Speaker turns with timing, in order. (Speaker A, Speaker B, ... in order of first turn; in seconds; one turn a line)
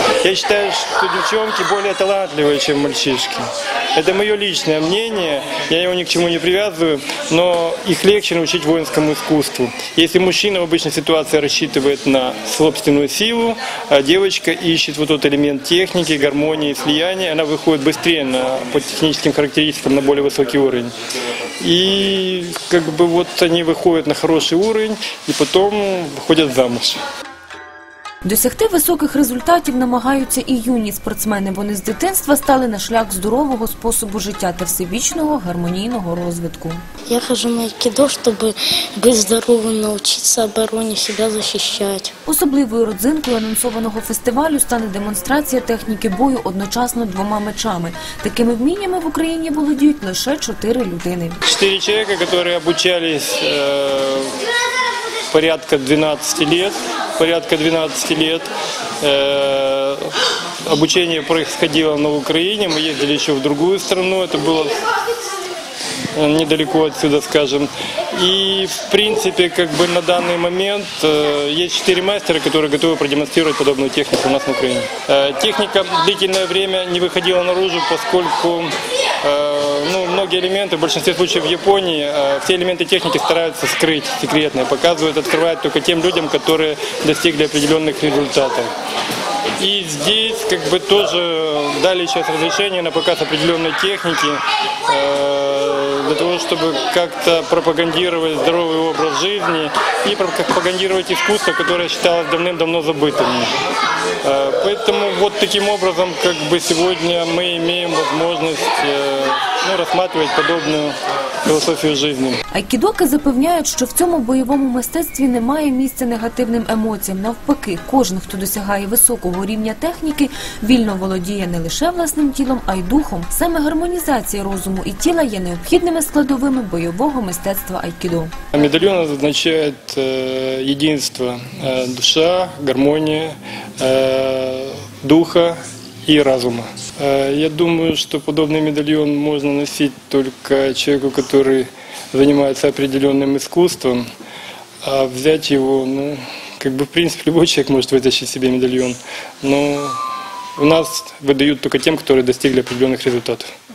Speaker A: 0.2-20.9
Speaker A: 21.6-27.0
Speaker B: 28.2-36.8
Speaker C: 37.1-42.1
Speaker B: 42.3-51.4
Speaker A: 51.5-54.4
Speaker A: 55.3-58.5
Speaker A: 59.0-60.1
Speaker A: 60.7-64.8
Speaker A: 66.2-88.7
Speaker A: 89.6-103.5
Speaker A: 104.2-112.4
Speaker B: 112.5-128.3
Speaker A: 128.5-144.1
Speaker A: 144.8-150.0
Speaker A: 150.6-153.5